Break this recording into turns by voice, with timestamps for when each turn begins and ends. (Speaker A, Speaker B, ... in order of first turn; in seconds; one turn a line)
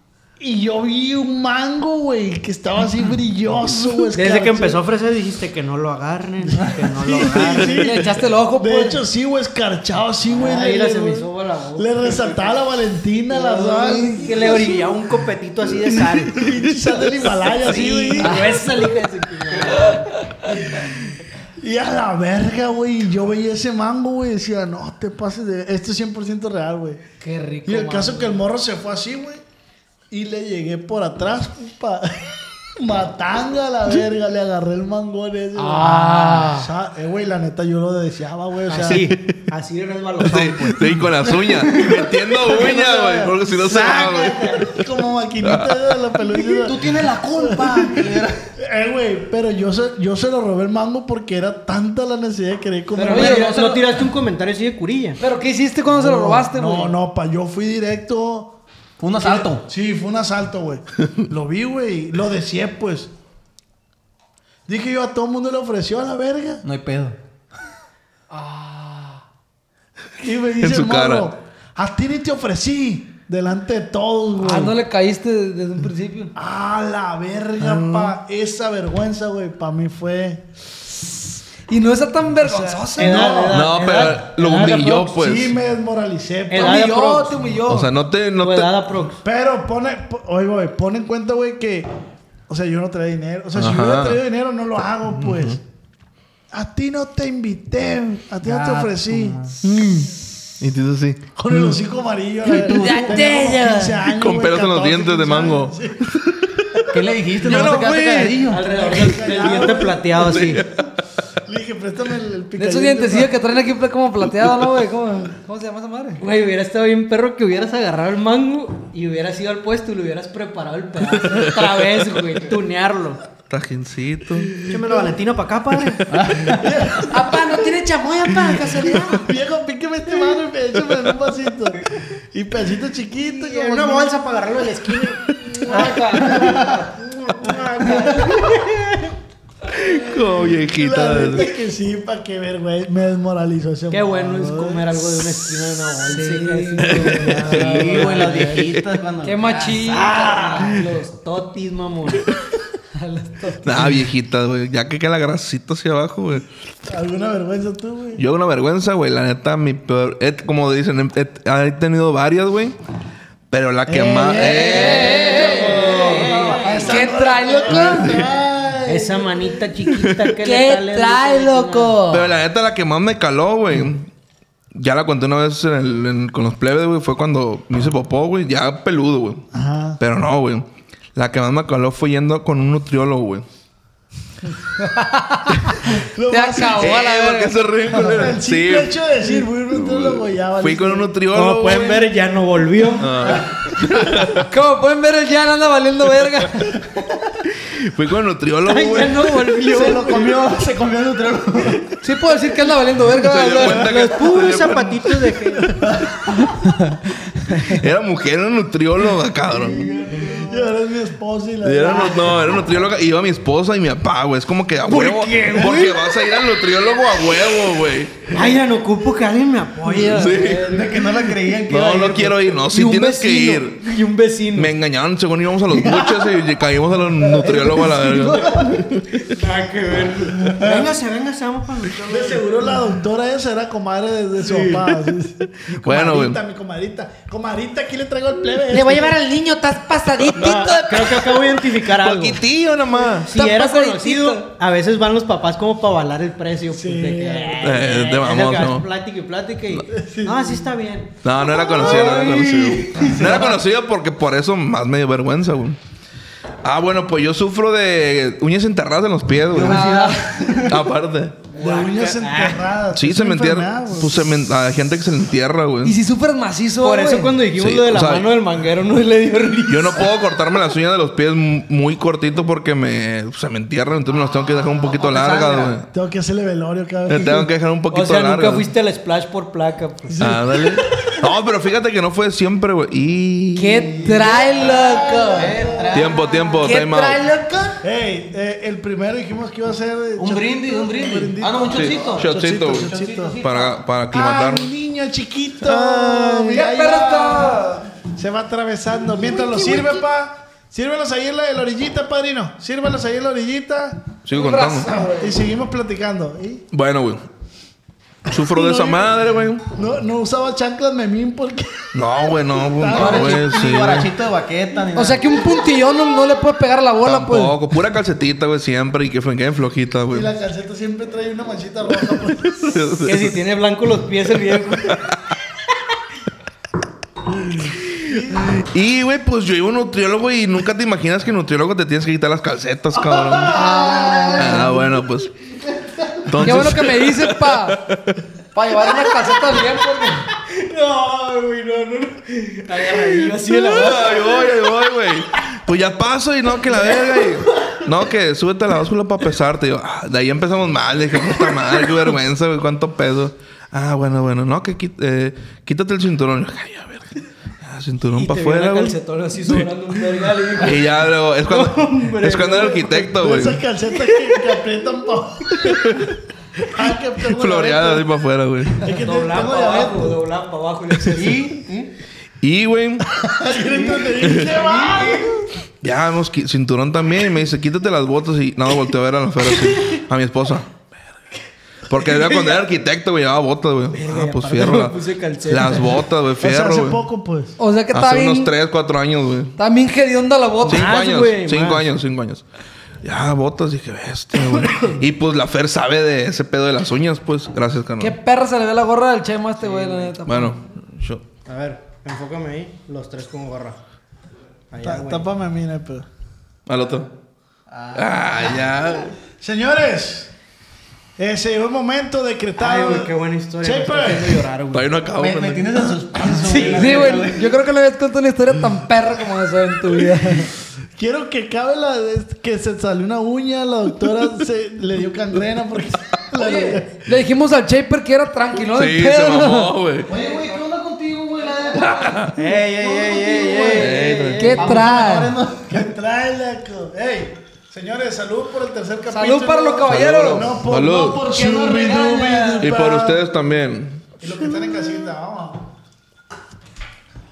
Speaker A: 0.4-4.8
Speaker B: 4.1-7.8
Speaker A: 6.7-14.9
Speaker C: 7.4-7.7
Speaker D: 7.8-9.0
Speaker B: 10.3-12.3
Speaker B: 13.3-16.5
Speaker A: 16.3-18.6
Speaker B: 17.6-20.1
Speaker D: 18.2-18.6
Speaker A: 20.5-27.0
Speaker D: 27.2-28.4
Speaker A: 27.6-29.4
Speaker A: 30.1-39.1
Speaker D: 35.6-36.7
Speaker B: 38.7-40.9
Speaker C: 40.2-44.8
Speaker E: 41.5-41.9
Speaker A: 42.3-53.4
Speaker B: 43.6-44.6
Speaker C: 45.4-45.7
Speaker E: 46.4-48.5
Speaker B: 53.0-55.2
Speaker D: 53.1-53.6
Speaker E: 53.2-54.0
Speaker D: 55.2-56.9
Speaker A: 55.9-58.6
Speaker E: 59.0-59.6
Speaker A: 59.2-63.1
Speaker A: 64.7-66.6
Speaker E: 66.6-67.2
Speaker D: 68.3-69.2
Speaker A: 70.2-74.8
Speaker C: 70.6-71.3
Speaker D: 74.4-76.3
Speaker A: 76.3-80.4
Speaker C: 77.6-78.1
Speaker D: 81.7-83.5
Speaker A: 82.4-83.6
Speaker B: 83.0-85.1
Speaker C: 83.5-85.5
Speaker A: 84.6-86.9
Speaker B: 86.5-87.4
Speaker D: 86.5-87.9
Speaker C: 87.6-88.7
Speaker B: 88.4-89.2
Speaker A: 89.2-91.9
Speaker A: 92.5-95.6
Speaker C: 93.5-94.2
Speaker C: 95.1-95.6
Speaker A: 96.5-100.2
Speaker E: 98.4-99.6
Speaker C: 100.6-101.8
Speaker A: 101.4-106.1
Speaker F: 102.6-104.0
Speaker E: 102.7-103.1
Speaker D: 102.8-103.1
Speaker C: 104.2-108.4
Speaker E: 106.9-108.6
Speaker B: 108.5-110.6
Speaker A: 108.6-110.2
Speaker C: 110.1-110.9
Speaker A: 111.4-113.3
Speaker D: 112.6-116.2
Speaker B: 116.2-123.2
Speaker C: 123.5-124.5
Speaker A: 124.5-125.2
Speaker B: 124.6-126.5
Speaker E: 126.1-126.6
Speaker A: 126.6-127.6
Speaker D: 127.1-129.3
Speaker F: 127.2-128.7
Speaker A: 128.4-134.2
Speaker B: 133.4-136.7
Speaker A: 135.5-136.6
Speaker D: 135.7-136.6
Speaker B: 137.4-139.0
Speaker C: 139.7-141.5
Speaker A: 140.7-144.9
Speaker B: 143.9-148.6
Speaker D: 146.1-148.4
Speaker C: 146.8-148.9
Speaker E: 147.4-150.0
Speaker D: 149.2-151.0
Speaker B: 149.9-152.3
Speaker A: 150.1-150.7
Speaker D: 152.9-153.7
Speaker C: 153.6-156.4
Speaker A: 156.8-158.2
Speaker C: 158.2-162.8
Speaker C: 163.5-165.2
Speaker A: 163.9-169.7
Speaker D: 164.6-165.9
Speaker B: 164.8-166.7
Speaker E: 164.9-167.0
Speaker D: 166.9-168.1
Speaker F: 166.9-167.9
Speaker C: 167.8-168.3
Speaker B: 168.9-172.0
Speaker F: 170.4-172.3
Speaker C: 172.1-174.1
Speaker C: 174.7-179.4
Speaker A: 179.5-180.0
Speaker C: 180.0-183.4
Speaker D: 184.8-188.1
Speaker A: 185.9-187.1
Speaker C: 186.8-188.9
Speaker A: 187.9-191.1
Speaker C: 189.7-192.1
Speaker B: 191.3-193.4
Speaker C: 193.0-194.4
Speaker D: 194.4-196.8
Speaker C: 197.6-199.5
Speaker B: 198.6-200.1
Speaker A: 199.7-201.7
Speaker E: 200.0-201.8
Speaker D: 202.0-203.9
Speaker C: 203.1-205.2
Speaker B: 203.6-205.8
Speaker A: 205.5-206.5
Speaker C: 207.7-209.8
Speaker A: 209.6-212.6
Speaker B: 209.8-210.4
Speaker C: 211.6-218.3
Speaker B: 214.9-216.0
Speaker B: 218.3-220.9
Speaker C: 220.0-220.7
Speaker E: 220.6-222.4
Speaker C: 221.7-223.8
Speaker B: 222.6-224.7
Speaker C: 224.6-229.3
Speaker E: 225.7-226.1
Speaker A: 227.2-228.8
Speaker B: 229.3-232.5
Speaker A: 230.4-230.9
Speaker A: 232.0-239.2
Speaker B: 234.4-234.9
Speaker C: 235.7-236.4
Speaker F: 238.7-241.4
Speaker B: 240.4-242.4
Speaker C: 241.8-243.3
Speaker B: 243.3-251.1
Speaker D: 243.4-244.3
Speaker F: 243.5-244.2
Speaker A: 246.7-247.9
Speaker C: 247.6-248.9
Speaker A: 249.9-250.7
Speaker C: 251.2-255.8
Speaker E: 251.5-253.6
Speaker B: 251.8-252.1
Speaker A: 253.1-253.6
Speaker C: 256.6-259.9
Speaker E: 259.5-260.8
Speaker D: 259.7-260.4
Speaker C: 260.6-261.4
Speaker B: 261.5-262.7
Speaker A: 261.6-264.3
Speaker C: 262.9-265.9
Speaker D: 265.8-267.4
Speaker B: 266.8-270.1
Speaker C: 267.5-268.3
Speaker C: 269.7-275.9
Speaker E: 274.9-275.8
Speaker A: 275.9-277.5
Speaker C: 277.1-278.7
Speaker B: 277.9-280.2
Speaker A: 280.1-281.0
Speaker C: 280.2-284.3
Speaker F: 283.6-285.4
Speaker D: 283.9-285.5
Speaker A: 284.1-285.9
Speaker E: 285.3-286.6
Speaker C: 285.9-287.2
Speaker F: 286.6-287.8
Speaker A: 287.8-293.4
Speaker E: 290.2-293.8
Speaker C: 291.7-292.9
Speaker C: 293.4-294.7
Speaker A: 294.1-304.1
Speaker C: 295.6-296.6
Speaker D: 296.5-297.9
Speaker F: 299.6-299.9
Speaker C: 304.3-304.9
Speaker D: 304.3-305.4
Speaker A: 304.9-306.6
Speaker C: 306.7-307.2
Speaker C: 308.3-309.6
Speaker A: 308.3-309.1
Speaker A: 309.7-313.5
Speaker C: 311.9-314.1
Speaker E: 312.9-315.6
Speaker D: 314.9-317.6
Speaker C: 317.1-320.3
Speaker A: 320.1-322.8
Speaker C: 322.6-323.4
Speaker B: 323.1-325.0
Speaker C: 324.9-325.1
Speaker A: 328.1-328.5
Speaker C: 328.1-333.6
Speaker B: 333.6-334.6
Speaker D: 333.6-334.6
Speaker A: 333.8-334.4
Speaker C: 334.3-335.3
Speaker C: 336.2-338.2
Speaker D: 336.4-337.8
Speaker D: 338.5-340.3
Speaker B: 340.5-344.4
Speaker C: 343.4-363.6
Speaker B: 358.1-363.1
Speaker A: 362.9-366.1
Speaker C: 365.6-366.1
Speaker A: 366.6-368.1
Speaker C: 367.3-368.9
Speaker A: 368.8-370.2
Speaker B: 368.9-371.5
Speaker E: 371.1-371.9
Speaker C: 372.4-373.1
Speaker A: 373.2-375.4
Speaker C: 374.2-374.6
Speaker B: 374.6-375.2
Speaker C: 375.8-380.8
Speaker C: 381.9-387.0
Speaker B: 383.9-386.0
Speaker A: 386.4-387.6
Speaker D: 387.6-388.5
Speaker C: 387.9-389.6
Speaker D: 389.6-391.0
Speaker B: 390.6-391.9
Speaker C: 390.6-392.4
Speaker C: 393.0-398.2
Speaker D: 398.0-400.6
Speaker B: 399.6-400.2
Speaker C: 400.2-401.2
Speaker B: 401.4-403.8
Speaker B: 404.7-405.3
Speaker A: 404.8-406.1
Speaker C: 406.7-407.1
Speaker E: 407.7-408.7
Speaker C: 407.9-409.1
Speaker A: 409.4-410.3
Speaker A: 411.2-414.4
Speaker B: 412.6-414.9
Speaker C: 414.7-415.9
Speaker E: 415.1-417.5
Speaker D: 416.5-420.5
Speaker A: 420.0-427.1
Speaker D: 426.4-429.8
Speaker C: 428.7-430.1
Speaker E: 430.1-435.9
Speaker C: 431.8-432.3
Speaker B: 432.3-434.8
Speaker C: 433.7-434.7
Speaker D: 434.4-435.4
Speaker A: 435.6-443.3
Speaker D: 439.1-440.6
Speaker C: 439.9-441.4
Speaker E: 441.3-442.7
Speaker C: 442.6-444.1
Speaker A: 444.2-445.7